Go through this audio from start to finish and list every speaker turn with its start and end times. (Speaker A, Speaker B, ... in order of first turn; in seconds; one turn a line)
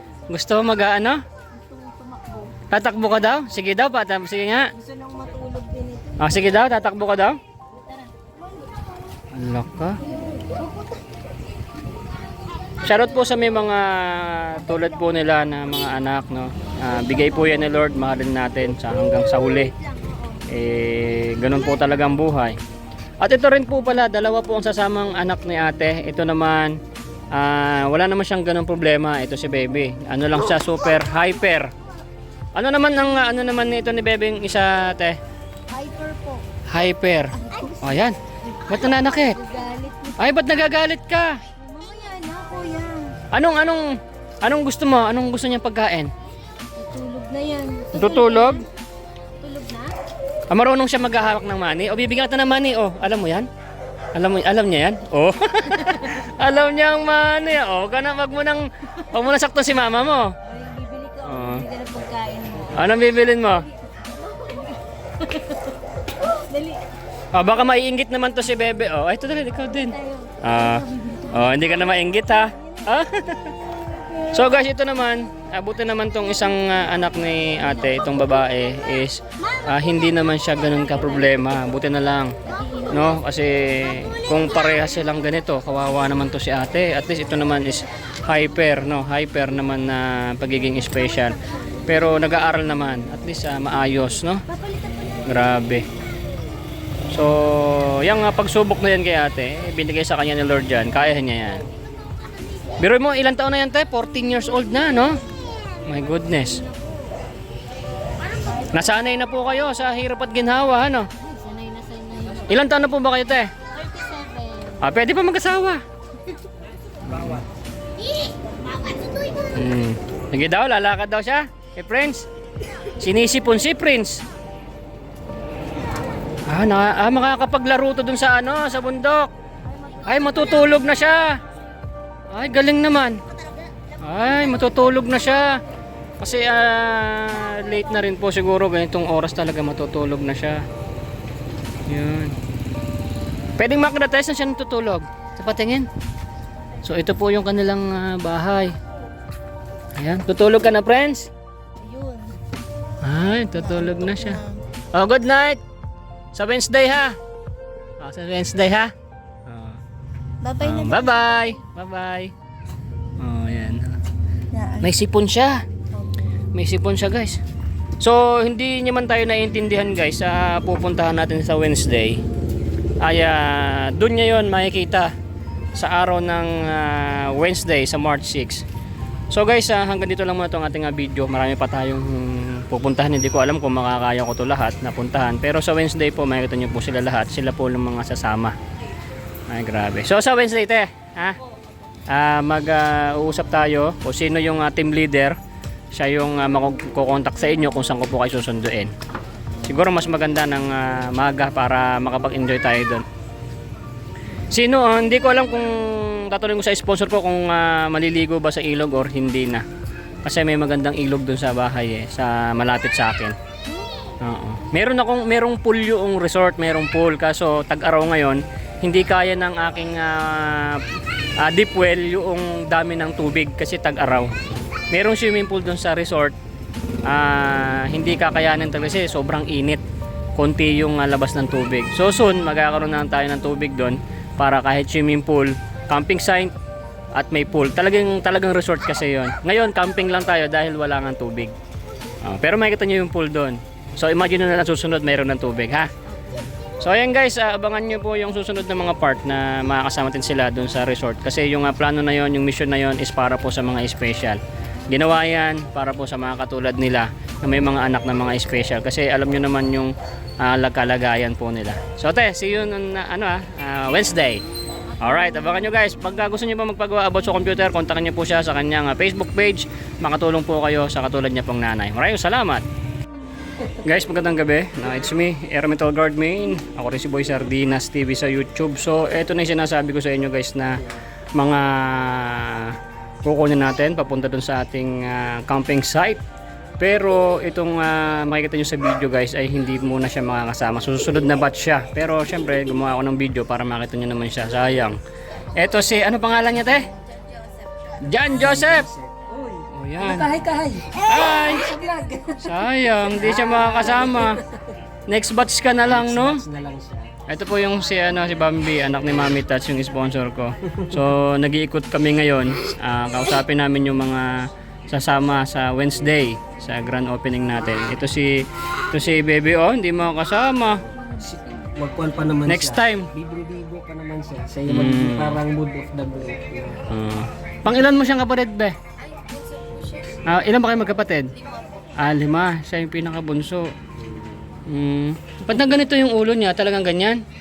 Speaker A: 0.3-1.2
Speaker B: 1.5-2.5
Speaker A: 2.7-4.7
Speaker B: 4.8-6.7
Speaker A: 6.2-7.4
Speaker B: 7.7-8.8
Speaker A: 9.3-10.0
Speaker B: 10.1-10.9
Speaker A: 12.8-19.7
Speaker B: 20.0-20.4
Speaker A: 20.5-22.6
Speaker A: 23.2-26.8
Speaker A: 27.3-31.7
Speaker A: 32.5-35.2
Speaker B: 35.7-36.4
Speaker A: 36.7-38.2
Speaker B: 37.4-37.8
Speaker B: 38.5-40.5
Speaker A: 38.7-39.4
Speaker A: 40.2-41.4
Speaker B: 41.6-43.1
Speaker A: 43.3-43.9
Speaker A: 44.4-46.1
Speaker B: 46.8-48.6
Speaker A: 48.0-48.6
Speaker B: 49.4-49.9
Speaker A: 50.5-53.5
Speaker A: 54.1-60.3
Speaker B: 60.5-63.0
Speaker A: 61.2-61.6
Speaker A: 62.7-63.7
Speaker B: 63.9-66.8
Speaker A: 67.3-73.5
Speaker B: 69.9-71.7
Speaker B: 72.5-74.3
Speaker A: 74.3-82.4
Speaker B: 82.4-83.2
Speaker A: 82.9-94.4
Speaker B: 94.5-95.2
Speaker A: 95.2-95.8
Speaker A: 97.1-101.6
Speaker A: 102.8-105.2
Speaker A: 105.9-106.6
Speaker B: 106.5-107.1
Speaker B: 108.4-108.8
Speaker A: 108.7-111.1
Speaker B: 111.2-112.5
Speaker A: 112.5-113.5
Speaker B: 113.7-114.8
Speaker A: 114.8-115.8
Speaker A: 117.1-117.4
Speaker B: 118.1-119.5
Speaker A: 119.5-122.2
Speaker A: 123.0-124.2
Speaker A: 126.5-129.3
Speaker B: 129.7-130.5
Speaker A: 130.1-131.4
Speaker A: 132.3-133.2
Speaker A: 134.0-135.6
Speaker A: 136.2-140.6
Speaker A: 141.9-142.3
Speaker A: 143.6-145.9
Speaker A: 146.8-148.8
Speaker A: 150.0-151.3
Speaker B: 151.8-152.4
Speaker A: 153.0-154.4
Speaker B: 153.6-154.6
Speaker A: 154.9-155.6
Speaker A: 156.3-157.2
Speaker A: 158.0-158.9
Speaker A: 159.4-159.8
Speaker B: 160.4-161.6
Speaker A: 160.6-162.3
Speaker A: 163.2-163.9
Speaker B: 164.5-164.9
Speaker A: 164.8-165.6
Speaker A: 166.6-167.4
Speaker A: 168.0-172.2
Speaker A: 173.0-175.1
Speaker A: 175.8-178.6
Speaker A: 179.3-188.6
Speaker A: 189.5-191.4
Speaker A: 192.1-195.4
Speaker A: 195.9-198.9
Speaker A: 199.7-203.0
Speaker A: 204.5-209.6
Speaker A: 210.2-213.3
Speaker A: 214.2-220.8
Speaker A: 221.4-224.3
Speaker A: 224.9-226.3
Speaker A: 227.1-229.8
Speaker A: 230.4-236.5
Speaker A: 237.2-241.5
Speaker A: 242.2-245.9
Speaker B: 246.1-246.4
Speaker A: 246.8-264.4
Speaker A: 265.0-272.6
Speaker A: 273.8-280.8
Speaker A: 281.4-286.2
Speaker A: 286.8-295.0
Speaker A: 295.6-296.9
Speaker A: 298.0-298.8
Speaker C: 298.3-304.4
Speaker A: 299.7-300.3
Speaker A: 301.1-301.7
Speaker A: 302.4-304.4
Speaker A: 305.1-306.4
Speaker C: 305.8-307.1
Speaker A: 307.3-320.8
Speaker C: 321.2-326.8
Speaker A: 322.4-323.1
Speaker A: 324.7-325.4
Speaker A: 326.9-328.8
Speaker B: 329.0-330.2
Speaker A: 330.3-331.3
Speaker A: 332.0-333.7
Speaker C: 334.0-334.4
Speaker A: 334.7-337.2